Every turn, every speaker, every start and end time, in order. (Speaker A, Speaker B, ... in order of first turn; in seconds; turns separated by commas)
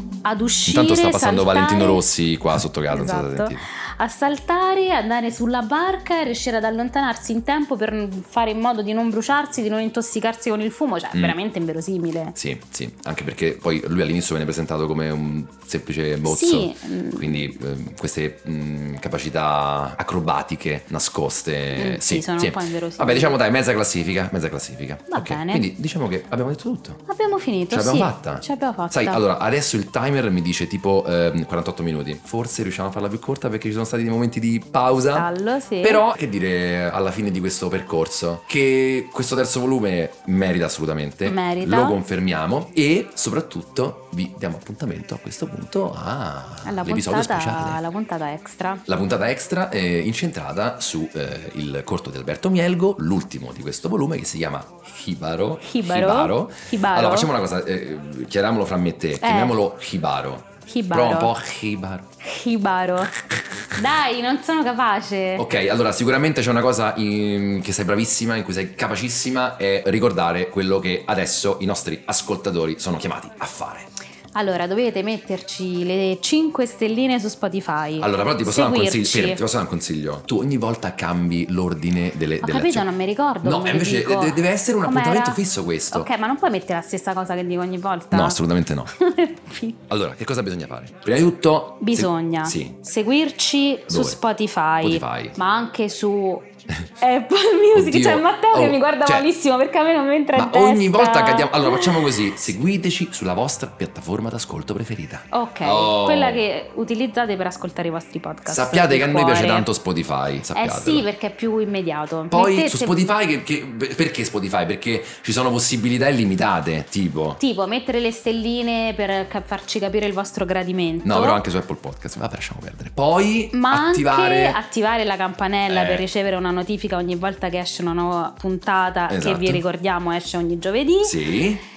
Speaker A: 0.2-2.0, Speaker B: 0.7-3.6, Speaker A: 2.9-12.3, Speaker B: 12.3-27.0, Speaker A: 16.2-17.5, Speaker A: 21.7-23.4, Speaker A: 25.1-25.6, Speaker A: 27.1-29.2, Speaker B: 27.7-35.3, Speaker A: 35.1-36.0, Speaker B: 35.8-47.8, Speaker A: 41.2-42.0, Speaker A: 46.6-48.8, Speaker B: 48.9-62.1, Speaker A: 55.6-57.3, Speaker A: 59.2-59.6, Speaker A: 60.7-61.3, Speaker A: 62.2-63.1, Speaker A: 63.8-65.4, Speaker B: 65.4-73.9, Speaker A: 74.3-79.4, Speaker B: 78.0-82.9, Speaker A: 82.4-85.4, Speaker B: 83.4-86.1, Speaker A: 85.9-88.4, Speaker B: 88.1-88.9, Speaker A: 89.0-89.8, Speaker B: 89.9-92.8, Speaker A: 91.8-96.5, Speaker B: 93.9-94.2, Speaker B: 94.8-95.4, Speaker A: 97.0-102.2, Speaker B: 97.7-99.3, Speaker B: 100.3-106.4, Speaker A: 105.3-109.7, Speaker B: 108.5-111.0, Speaker A: 110.5-113.0, Speaker B: 112.3-117.4, Speaker A: 117.4-121.4, Speaker B: 121.0-124.6, Speaker A: 123.5-131.2, Speaker B: 125.7-126.0, Speaker B: 129.1-129.6, Speaker B: 131.0-131.6